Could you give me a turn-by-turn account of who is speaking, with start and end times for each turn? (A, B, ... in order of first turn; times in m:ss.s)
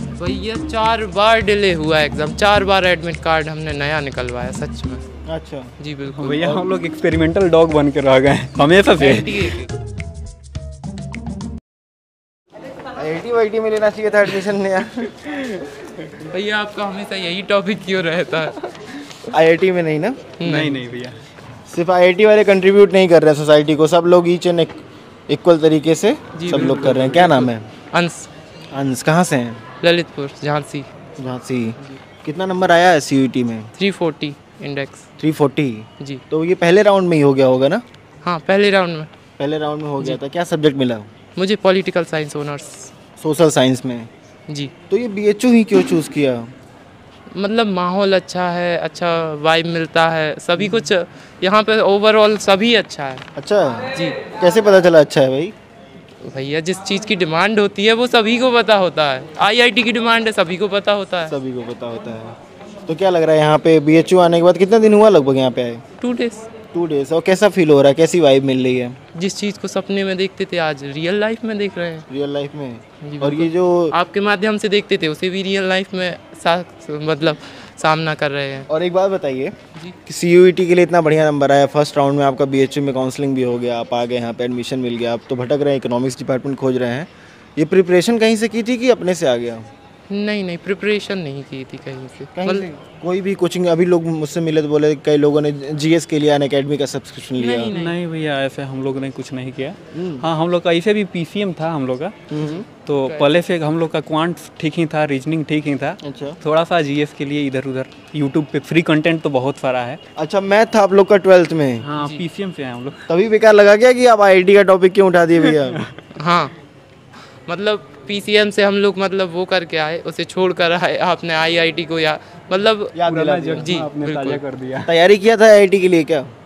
0:00.2-0:05.0 A
0:05.3-0:05.7 B
0:05.8-0:06.6 A
0:06.1-0:09.6 C
0:09.0-0:09.7 A
0:12.9-0:15.2 B
0:16.3-0:18.6 A
0:19.3-0:20.3 B
0:20.4-0:20.8 A
0:20.4-0:21.2 C
0:21.7-0:24.8 B
0:25.3-0:27.7 B
0:26.3-0:26.7 A
0:26.5-0:27.5 C
0:27.9-0:28.3 A
0:28.7-0:29.6 B
0:29.8-0:30.9 A
0:31.2-0:33.7 B
0:33.8-0:35.0 A
0:35.2-0:37.8 B
0:38.2-0:39.1 A
0:39.4-0:41.1 B
0:41.4-0:42.9 A
0:43.2-0:44.1 B
0:44.5-0:44.7 A
0:44.9-0:46.5 B
0:47.3-0:53.2 A
0:53.4-0:55.5 B
0:53.9-0:54.2 A
0:56.2-1:01.3 A
1:01.3-1:02.4 B
1:02.9-1:05.8 B
1:06.0-1:06.5 A
1:06.7-1:09.0 B
1:09.1-1:12.0 A
1:12.1-1:13.9 B
1:13.0-1:18.6 A
1:18.7-1:19.5 B
1:20.1-1:29.7 B
1:30.1-1:32.7 A
1:32.3-1:37.7 B
1:37.4-1:38.0 A
1:37.7-1:42.1 C
1:39.9-1:40.3 B
1:42.3-1:42.7 B
1:42.8-1:50.0 C
1:43.0-1:43.4 A
1:46.0-1:46.4 B
1:50.2-1:51.8 B
1:51.8-1:53.1 C
1:52.0-1:52.2 A
1:53.1-1:55.8 B
1:55.4-1:55.8 C
1:56.2-1:56.5 A
1:57.5-2:04.4 A
2:02.9-2:03.7 B
2:03.0-2:04.9 C
2:04.8-2:06.3 B